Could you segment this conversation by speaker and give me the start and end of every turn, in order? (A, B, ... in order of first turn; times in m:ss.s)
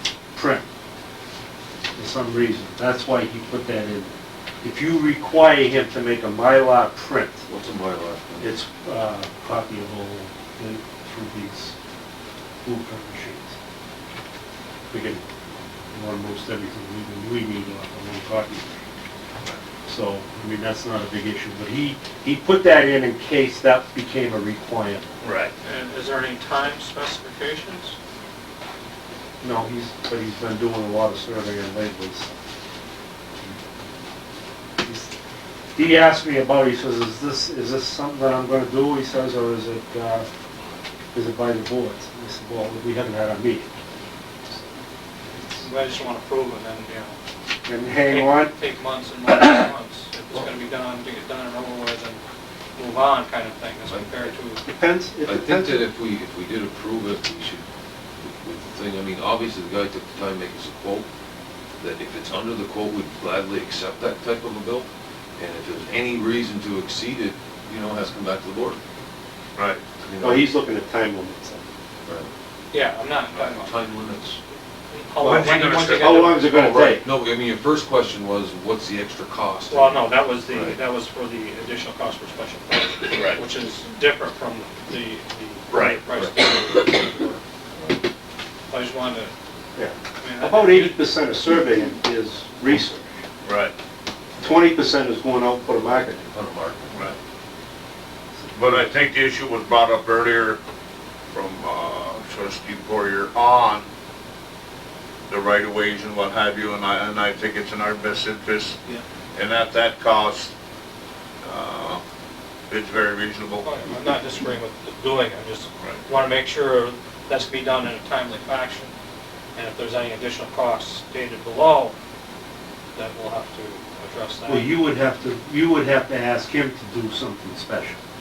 0:00.3-0:00.6 A
0:02.0-0:04.1 A
0:04.6-0:07.5 A
0:07.5-0:08.5 B
0:08.4-0:11.8 A
0:12.6-0:13.6 A
0:14.9-0:15.2 A
0:15.9-0:18.7 A
0:19.8-0:25.0 A
0:25.2-0:25.5 C
0:25.6-0:28.0 D
0:29.4-0:32.3 A
0:34.8-0:35.1 A
0:35.8-0:40.2 A
0:41.1-0:43.8 A
0:45.6-0:47.2 D
0:47.7-0:48.5 A
0:48.0-0:52.2 D
0:52.8-0:54.6 D
0:54.6-0:55.8 A
0:55.2-0:57.6 B
0:58.2-1:01.1 B
1:01.8-1:08.8 B
1:09.6-1:09.8 C
1:10.0-1:10.5 B
1:10.2-1:11.6 A
1:12.7-1:13.7 D
1:13.4-1:14.4 B
1:14.9-1:16.4 D
1:15.2-1:17.0 A
1:15.2-1:16.3 C
1:16.3-1:20.8 B
1:19.7-1:27.4 D
1:23.1-1:23.4 C
1:25.7-1:26.0 C
1:28.7-1:29.3 D
1:29.8-1:33.2 A
1:30.2-1:31.0 D
1:33.4-1:33.7 C
1:34.4-1:36.2 A
1:36.2-1:37.2 B
1:38.5-1:38.8 A
1:38.5-1:40.6 C
1:41.3-1:43.9 C
1:45.3-1:48.8 C
1:49.3-1:50.5 C
1:51.4-1:52.0 C
1:52.7-1:53.6 C
1:53.6-1:59.0 D
1:59.6-2:02.0 D
2:03.0-2:04.7 D
2:04.5-2:08.0 A